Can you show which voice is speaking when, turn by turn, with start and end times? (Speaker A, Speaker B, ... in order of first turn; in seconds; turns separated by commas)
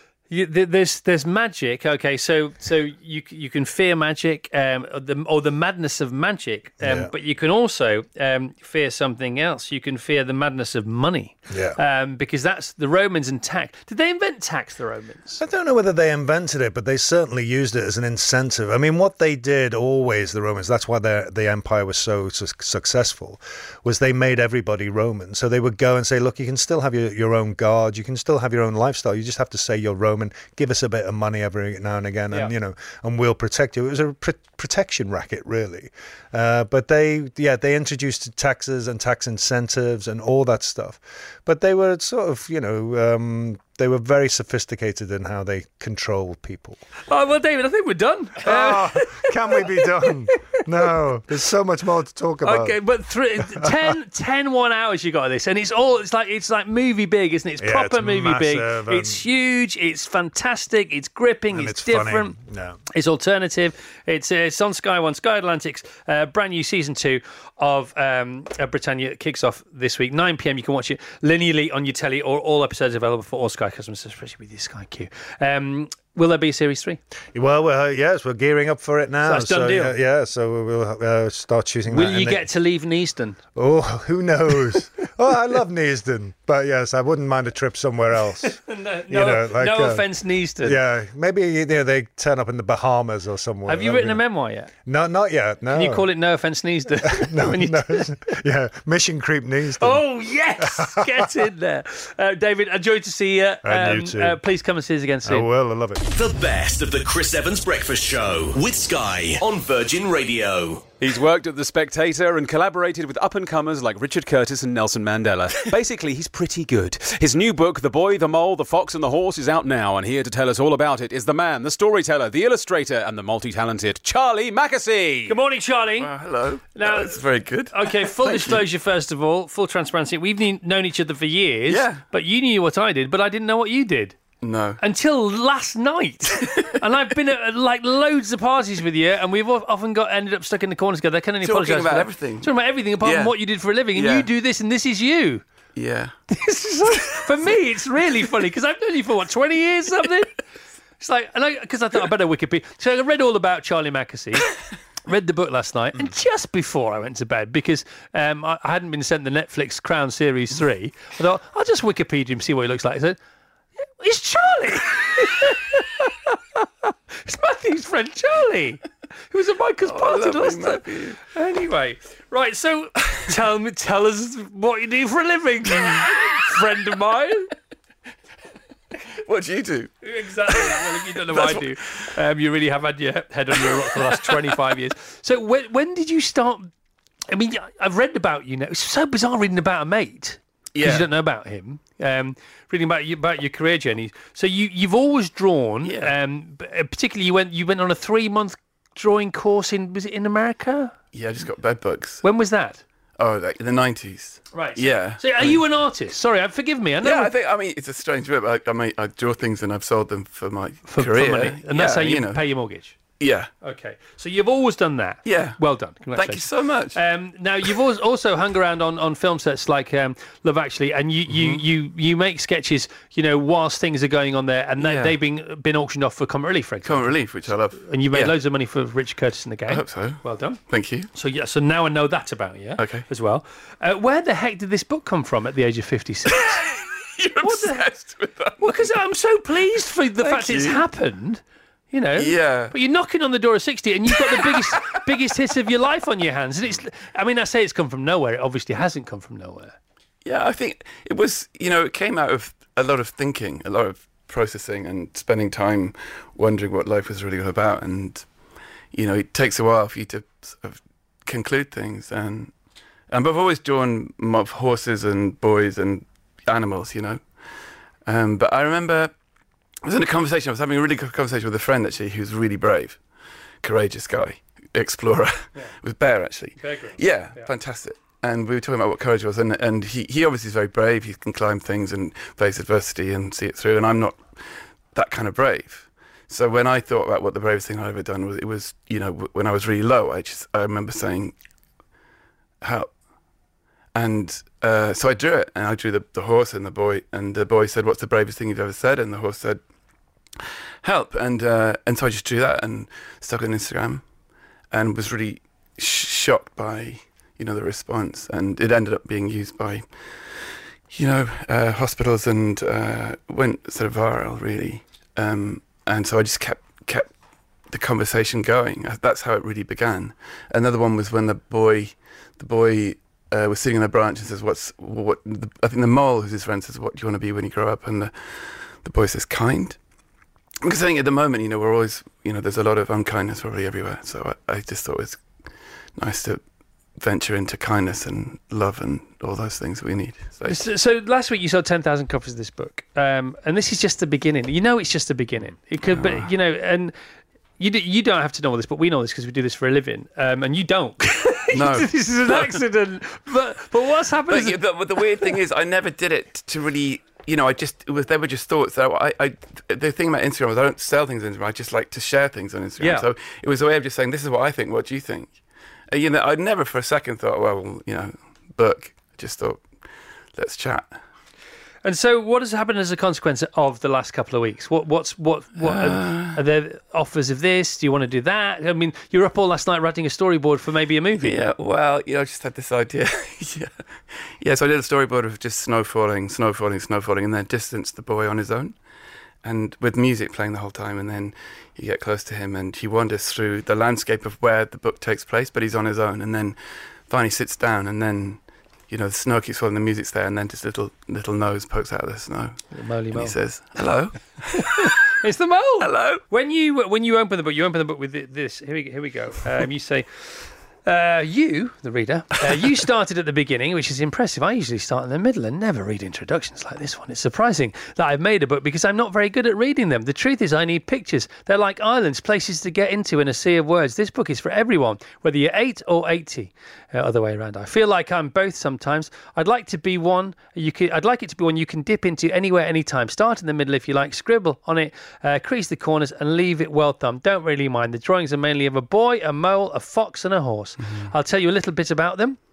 Speaker A: 0.3-15.4, Speaker B: 6.8-7.1, Speaker B: 11.5-11.8, Speaker B: 15.4-46.8, Speaker A: 47.1-50.1, Speaker B: 48.4-52.8, Speaker A: 52.4-62.4, Speaker B: 57.6-59.2, Speaker B: 61.5-62.8, Speaker A: 62.9-77.0, Speaker B: 77.3-82.4, Speaker A: 79.2-80.0, Speaker A: 81.9-83.4, Speaker B: 83.5-90.1, Speaker A: 88.4-90.8, Speaker B: 90.6-94.2, Speaker A: 93.7-94.7, Speaker B: 94.8-96.1, Speaker A: 95.7-98.1, Speaker B: 97.0-100.0, Speaker A: 99.8-105.5, Speaker B: 100.6-101.3, Speaker B: 103.6-104.4, Speaker B: 105.2-106.0, Speaker C: 106.0-110.9, Speaker D: 111.0-125.3, Speaker A: 125.2-126.1, Speaker E: 126.0-128.6, Speaker A: 126.7-134.2, Speaker E: 131.7-132.0, Speaker E: 134.4-134.8, Speaker A: 134.8-145.4, Speaker E: 136.4-136.7, Speaker E: 141.4-143.4, Speaker E: 143.9-144.3, Speaker E: 145.7-146.1, Speaker A: 146.3-150.3, Speaker A: 151.0-154.5, Speaker A: 155.1-163.2, Speaker A: 164.0-177.5, Speaker E: 169.8-171.2, Speaker E: 179.2-179.9, Speaker A: 180.0-186.7, Speaker E: 180.4-182.1, Speaker E: 183.5-184.6, Speaker A: 187.3-200.9, Speaker E: 190.7-191.1, Speaker E: 195.8-196.1, Speaker E: 201.1-202.2, Speaker A: 202.2-202.8, Speaker E: 203.2-205.6, Speaker A: 204.5-207.3, Speaker E: 207.0-212.4, Speaker A: 210.9-213.0, Speaker E: 213.2-213.5, Speaker A: 213.6-227.2, Speaker E: 215.2-215.6, Speaker E: 216.1-217.0, Speaker E: 221.3-221.6, Speaker E: 224.8-225.2, Speaker E: 226.8-228.3, Speaker A: 227.8-230.6, Speaker E: 229.7-231.1, Speaker A: 231.1-236.5, Speaker E: 232.8-233.1, Speaker E: 236.3-238.9, Speaker A: 237.4-237.9, Speaker A: 238.6-249.7, Speaker E: 240.2-240.8, Speaker E: 242.1-242.7, Speaker E: 244.1-245.0, Speaker E: 250.2-258.2, Speaker E: 258.9-262.5, Speaker E: 263.1-267.2, Speaker E: 268.0-269.1, Speaker E: 269.8-273.0, Speaker E: 273.6-284.4, Speaker A: 276.6-277.5, Speaker E: 284.9-291.3, Speaker E: 292.6-292.9, Speaker E: 293.9-299.6, Speaker E: 300.8-304.0, Speaker E: 304.7-309.9, Speaker E: 310.9-317.1, Speaker E: 317.7-329.8, Speaker E: 330.6-335.2, Speaker E: 335.9-336.4, Speaker E: 337.0-340.6, Speaker A: 340.5-346.9, Speaker E: 345.8-346.3, Speaker A: 347.6-355.4, Speaker E: 351.5-352.6, Speaker E: 354.3-365.4, Speaker A: 362.8-363.1, Speaker E: 365.9-369.6, Speaker E: 370.3-370.9, Speaker A: 371.8-381.4, Speaker E: 375.6-376.4, Speaker E: 381.2-383.7, Speaker E: 384.2-388.8, Speaker E: 389.4-402.6, Speaker A: 402.7-403.4, Speaker E: 403.1-405.0, Speaker A: 404.8-442.4, Speaker E: 405.8-406.2, Speaker E: 440.8-441.1